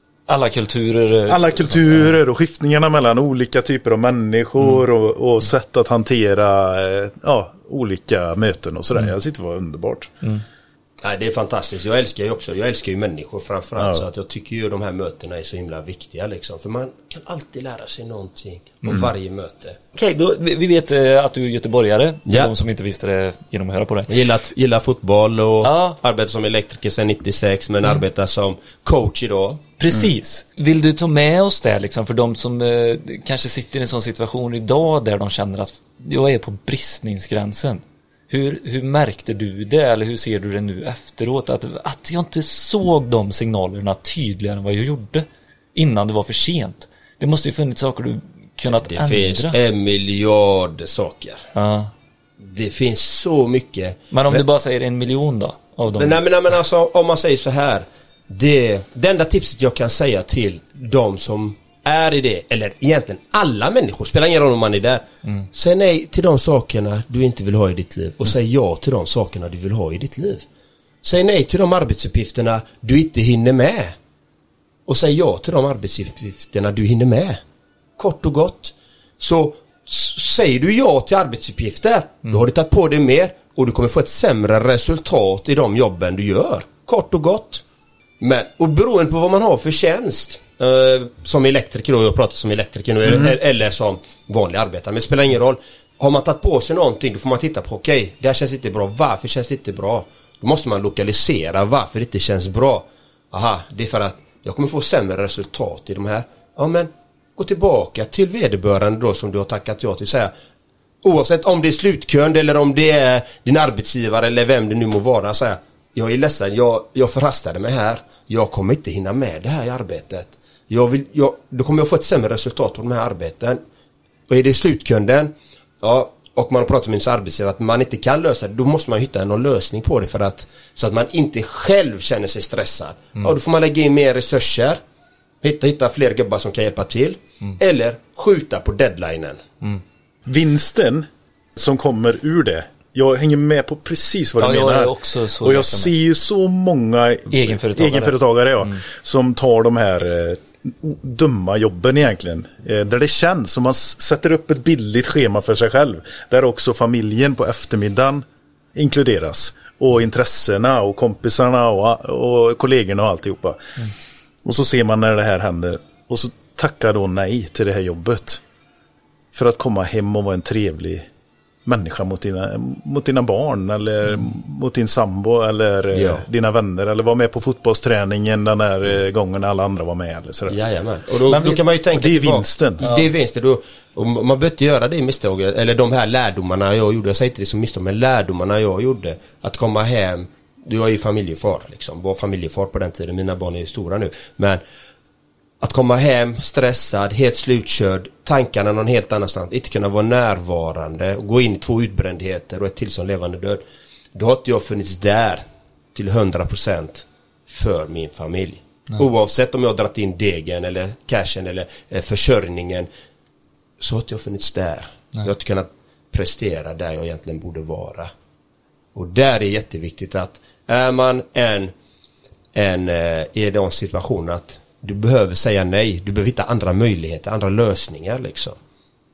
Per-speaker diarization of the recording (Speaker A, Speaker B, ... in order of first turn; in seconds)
Speaker A: 0.3-2.1, 19.9-24.1, 25.6-26.0, 29.8-49.6, 51.5-51.9, 54.1-56.2, 144.4-145.9, 147.3-148.8, 181.3-181.6
Speaker B: 1.3-10.1, 13.8-14.0, 140.3-163.6, 164.4-168.4, 169.3-171.1, 171.7-180.6, 181.9-182.8
Speaker C: 11.0-19.8, 22.3-22.5, 24.1-29.6, 48.7-51.5, 52.4-54.4, 56.0-70.5, 71.0-73.9, 74.9-77.4, 78.0-87.6, 88.2-110.3, 111.0-123.6, 124.3-134.8, 135.4-139.4, 175.9-176.2, 180.5-194.6, 195.6-203.6, 204.2-205.4, 205.9-212.9, 213.8-218.1, 218.9-221.7, 222.5-228.6